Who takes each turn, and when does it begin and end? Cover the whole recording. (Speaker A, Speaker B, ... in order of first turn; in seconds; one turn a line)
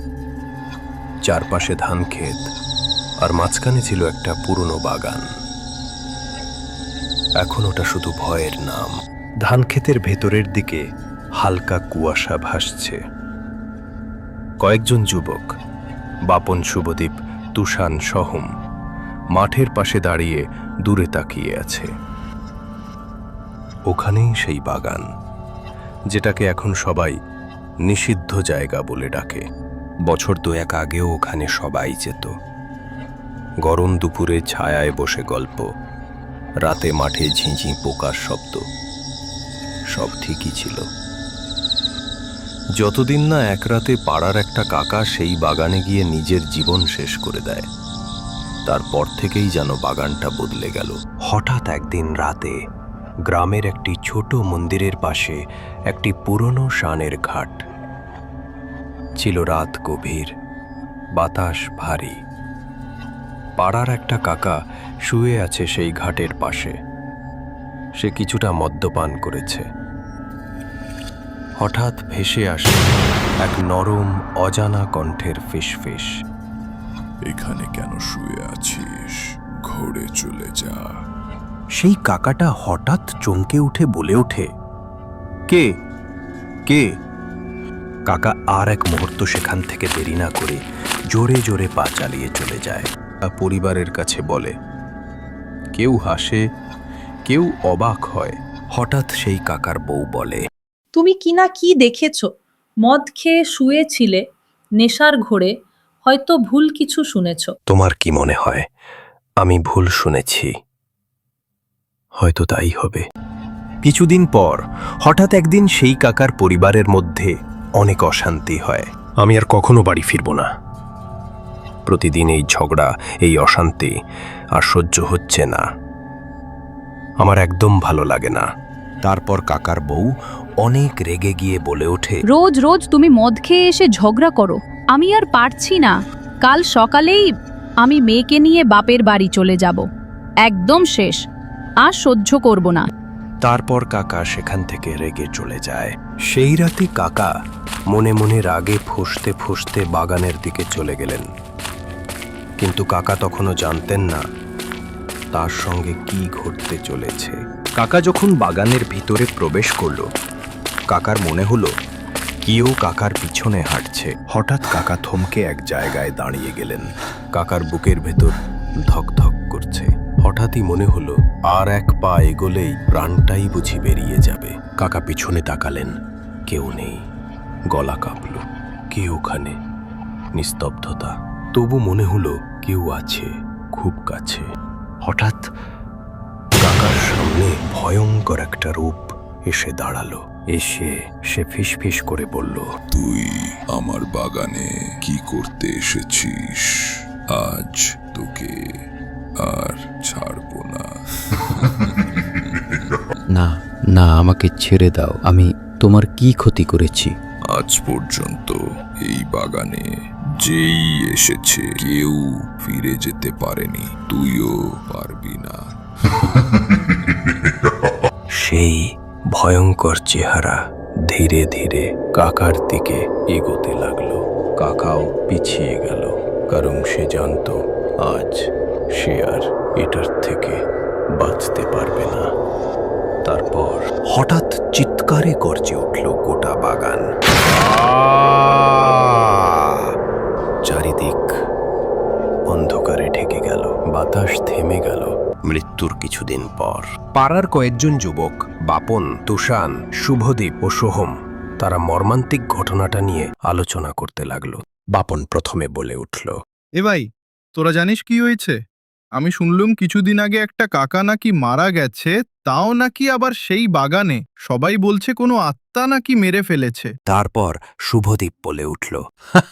Speaker A: 1.3-2.4
Speaker A: 3.2-5.2
Speaker A: 7.4-8.9
Speaker A: 9.4-10.8
Speaker A: 11.4-13.0
Speaker A: 14.6-15.5
Speaker A: 16.3-18.5
Speaker A: 19.4-21.9
Speaker A: 23.9-25.0
Speaker A: 26.1-27.1
Speaker A: 27.9-29.4
Speaker A: 30.1-32.3
Speaker A: 33.7-35.6
Speaker A: 36.6-38.6
Speaker A: 39.9-40.8
Speaker A: 42.8-47.6
Speaker A: 48.7-52.5
Speaker A: 53.3-55.4
Speaker A: 55.9-57.6
Speaker A: 59.2-60.3
Speaker A: 61.2-62.1
Speaker A: 63.6-64.5
Speaker A: 65.1-66.8
Speaker A: 68.0-69.7
Speaker A: 71.6-76.1
Speaker B: 77.3-79.2
Speaker B: 79.7-80.9
Speaker A: 81.8-84.5
Speaker A: 88.1-90.6
Speaker A: 91.1-94.5
Speaker A: 95.8-96.4
Speaker A: 97.3-100.4
Speaker C: 100.9-107.5
Speaker A: 107.7-108.6
Speaker A: 109.4-110.5
Speaker A: 112.2-113.0
Speaker A: 113.8-120.5
Speaker A: 121.9-123.9
Speaker A: 124.6-125.6
Speaker A: 127.2-128.5
Speaker A: 129.0-130.1
Speaker A: 130.6-132.2
Speaker D: 132.3-137.3
Speaker D: 137.8-139.8
Speaker D: 140.4-141.2
Speaker D: 141.8-142.9
Speaker A: 143.4-147.3
Speaker A: 147.9-151.3
Speaker A: 152.6-154.2
Speaker A: 155.3-160.1
Speaker A: 160.9-161.7
Speaker A: 162.4-175.9
Speaker A: 176.5-177.0
Speaker A: 177.7-179.5
Speaker A: 180.4-184.5
Speaker A: 185.1-185.4
Speaker A: 186.6-192.7
Speaker B: 192.9-196.7
Speaker B: 197.3-198.6
Speaker B: 199.4-200.9
Speaker B: 202.6-202.9
Speaker E: 203.4-205.4
Speaker E: 205.9-207.0
Speaker B: 207.5-209.9
Speaker B: 210.4-215.7
Speaker A: 218.4-228.5
Speaker A: 229.0-230.6
Speaker A: 231.2-232.3
Speaker A: 233.2-239.8
Speaker A: 240.7-241.3
Speaker A: 242.5-256.3
Speaker F: 257.6-258.6
Speaker F: 259.2-266.9
Speaker A: 267.1-269.0